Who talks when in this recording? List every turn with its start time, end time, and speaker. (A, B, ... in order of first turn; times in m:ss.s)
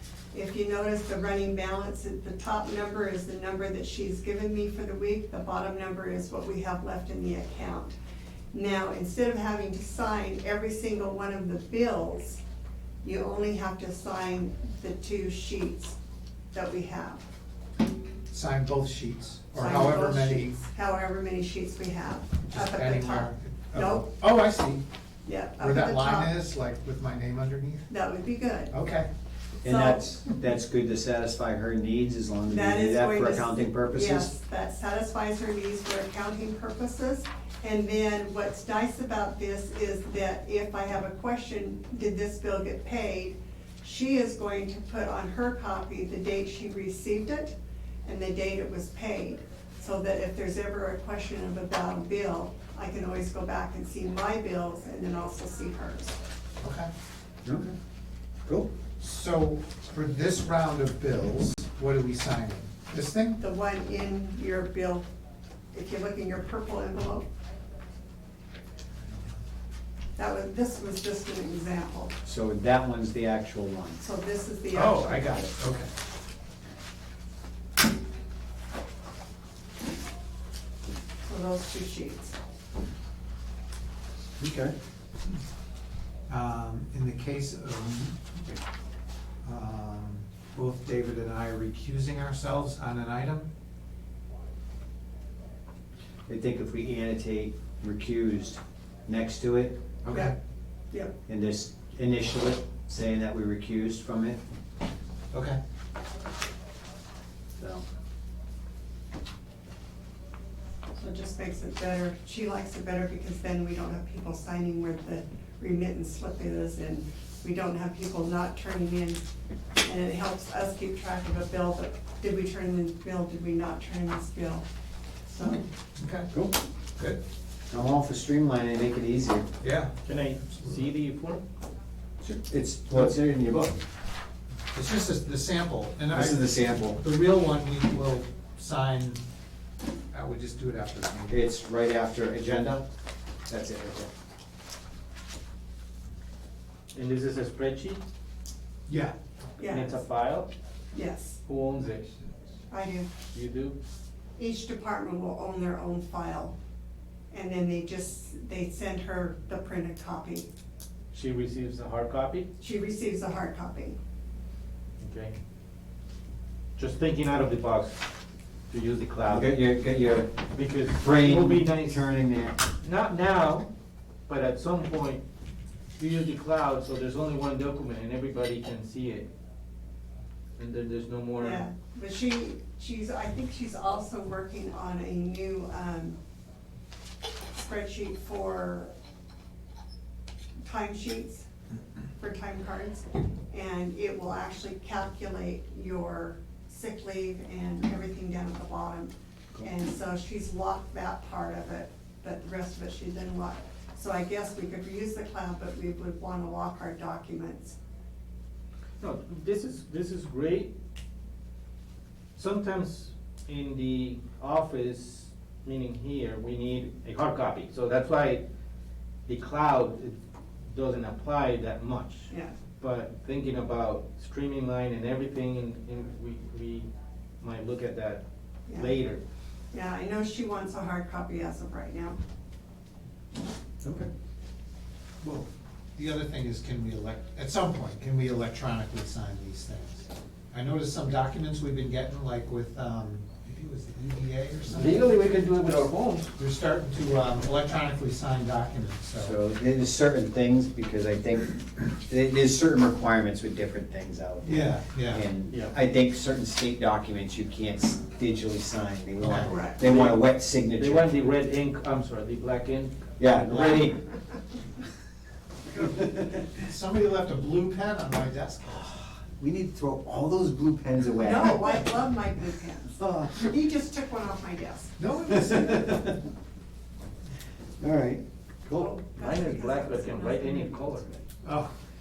0:00.3-0:08.0 A
0:08.5-0:12.4 A
0:13.0-0:16.0 A
0:16.5-0:17.2 A
0:18.3-0:20.6 B
0:19.6-0:24.1 A
0:22.5-0:24.8 B
0:25.3-0:26.3 A
0:25.6-0:27.9 B
0:27.9-0:28.7 A
0:28.7-0:29.1 B
0:29.6-0:34.3 C
0:29.6-0:30.0 A
0:32.5-0:56.2 A
0:56.6-0:56.9 B
0:57.4-0:57.8 C
0:59.0-1:03.4 B
1:03.4-1:05.1 A
1:05.7-1:07.3 A
1:10.2-1:12.2 A
1:12.2-1:14.0 C
1:14.0-1:15.5 A
1:14.7-1:15.9 B
1:21.2-1:22.4 A
1:24.4-1:24.8 C
1:26.3-1:28.4 B
1:29.4-1:33.5 B
1:36.3-1:39.8 C
1:40.0-1:40.3 B
1:41.3-1:44.4 C
1:45.3-1:45.6 B
1:47.5-1:47.8 C
1:51.0-1:59.2 A
1:59.8-2:04.7 A
2:05.3-2:05.6 A
2:05.4-2:06.3 B
2:07.7-2:09.5 C
2:09.6-2:09.9 B
2:10.0-2:11.4 D
2:10.5-2:10.8 B
2:12.2-2:13.8 C
2:14.7-2:19.2 B
2:16.1-2:17.0 C
2:20.1-2:21.4 B
2:21.3-2:22.9 C
2:23.5-2:24.1 C
2:26.9-2:28.0 D
2:28.9-2:29.2 B
2:29.6-2:30.0 A
2:29.6-2:30.5 D
2:30.9-2:31.4 A
2:31.5-2:32.2 D
2:32.7-2:33.1 A
2:33.3-2:33.8 D
2:34.4-2:36.5 A
2:37.3-2:40.5 A
2:41.1-2:42.5 D
2:42.6-2:44.0 A
2:45.0-2:45.3 D
2:46.8-2:48.0 D
2:48.7-2:49.6 D
2:49.3-2:50.3 C
2:50.5-2:52.0 D
2:50.9-2:52.6 C
2:52.8-2:53.7 D
2:54.3-2:55.2 D
2:56.0-2:59.3 D
3:00.6-3:01.6 D
3:01.4-3:06.2 A
3:07.5-3:08.9 A
3:10.6-3:11.5 A
3:12.2-3:27.8 A
3:29.0-3:30.7 D
3:32.4-3:38.4 D
3:39.3-3:40.2 D
3:40.7-3:46.9 D
3:47.4-3:48.2 D
3:48.7-3:48.9 A
3:48.7-3:49.2 D
3:49.7-3:52.2 A
3:53.8-3:54.1 C
3:55.2-4:05.1 B
4:04.7-4:06.4 D
4:06.4-4:09.4 B
4:09.2-4:21.1 C
4:14.4-4:15.2 B
4:15.5-4:15.8 D
4:19.2-4:19.6 B
4:19.5-4:19.8 A
4:19.8-4:23.9 D
4:23.2-4:24.0 C
4:25.8-4:26.5 C
4:26.5-4:28.9 B
4:28.9-4:31.8 C
4:31.2-4:35.0 A
4:31.4-4:31.8 B
4:33.0-4:33.5 C
4:35.0-4:36.2 B
4:35.3-4:36.2 C
4:37.8-4:38.9 C
4:38.7-4:41.3 A
4:39.2-4:41.0 D
4:41.4-4:41.7 B